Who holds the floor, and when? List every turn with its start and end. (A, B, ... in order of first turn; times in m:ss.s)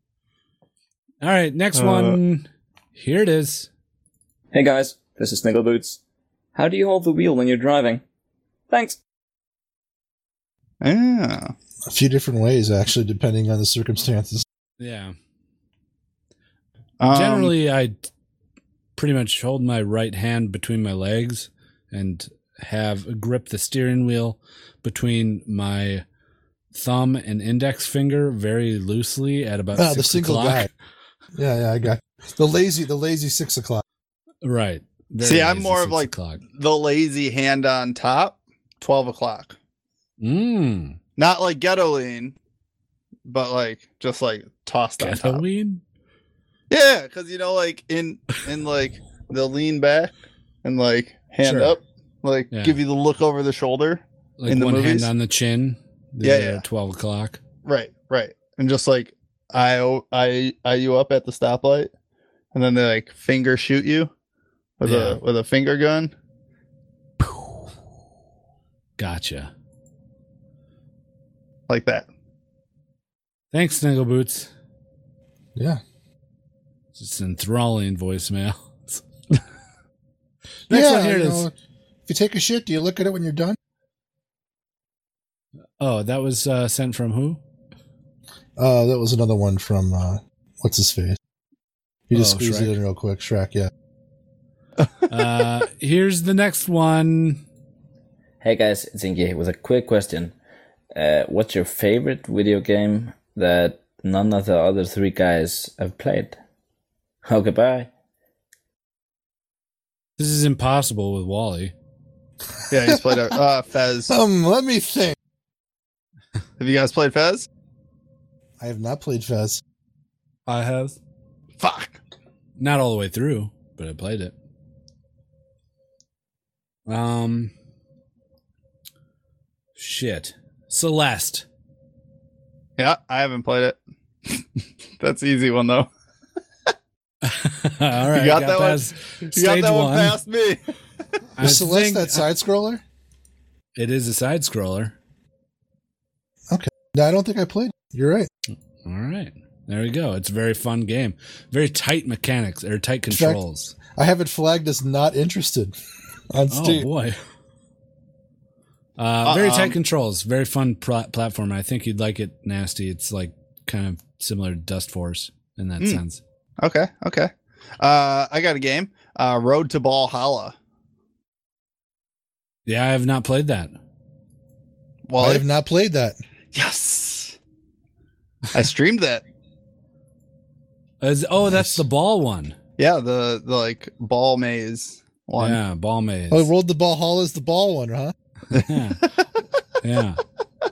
0:01.2-0:03.7 A
0:01.7-0:02.2 B
0:04.5-0:06.0 C
0:06.5-0:08.0 C
0:08.7-0:09.0 C
0:10.8-0:11.5 B
0:11.9-0:14.4 D
0:14.8-0:15.1 A
0:17.0-0:17.5 B
0:17.1-0:18.1 A
0:19.0-0:26.0 A
0:26.7-0:30.7 A
0:29.8-0:30.7 D
0:31.3-0:33.8 D
0:34.4-0:36.4 A
0:35.2-0:39.6 B
0:40.2-0:41.0 A
0:41.2-0:42.4 B
0:43.2-0:45.4 B
0:45.0-0:45.8 A
0:46.7-0:50.1 B
0:50.6-0:55.1 B
0:51.4-0:51.7 A
0:52.5-0:52.8 A
0:54.4-0:57.4 A
0:56.2-0:56.6 B
0:57.6-1:01.9 B
1:02.5-1:04.1 B
1:04.8-1:06.1 B
1:04.8-1:05.2 A
1:09.0-1:09.5 A
1:11.7-1:12.1 B
1:13.5-1:14.5 A
1:15.6-1:15.8 D
1:16.9-1:19.0 A
1:20.7-1:21.5 A
1:20.7-1:21.5 D
1:22.1-1:23.6 D
1:25.8-1:27.4 A
1:28.6-1:31.2 D
1:32.1-1:33.7 D
1:32.1-1:32.8 A
1:35.1-1:37.4 A
1:38.4-1:40.3 E
1:40.9-1:46.4 E
1:47.2-1:47.9 E
1:50.2-1:51.7 A
1:52.7-1:54.1 B
1:52.8-1:53.2 D
1:54.1-1:55.2 D
1:56.6-1:57.5 B
1:58.6-1:59.6 D
2:00.5-2:01.0 A
2:01.6-2:02.0 B
2:02.6-2:04.3 A
2:06.9-2:07.5 A
2:09.8-2:11.4 A
2:12.8-2:13.8 B
2:15.0-2:15.9 B
2:17.2-2:20.2 A
2:18.1-2:20.6 B
2:21.4-2:22.3 A
2:21.4-2:22.8 D
2:23.8-2:24.9 A
2:26.5-2:28.3 D
2:28.8-2:33.7 A
2:33.1-2:35.8 D
2:36.3-2:36.9 D
2:36.5-2:37.2 A
2:39.0-2:46.2 A
2:39.2-2:39.8 B
2:46.6-2:50.5 B
2:52.6-2:53.7 A
2:55.1-2:55.4 B
2:55.2-2:56.2 D
2:56.5-2:57.4 B
2:58.5-2:59.2 B
3:01.0-3:02.6 A
3:01.4-3:01.8 D
3:02.8-3:05.6 B
3:05.4-3:06.5 A
3:06.3-3:08.1 D
3:08.5-3:09.0 A
3:08.5-3:09.1 B
3:09.8-3:10.2 A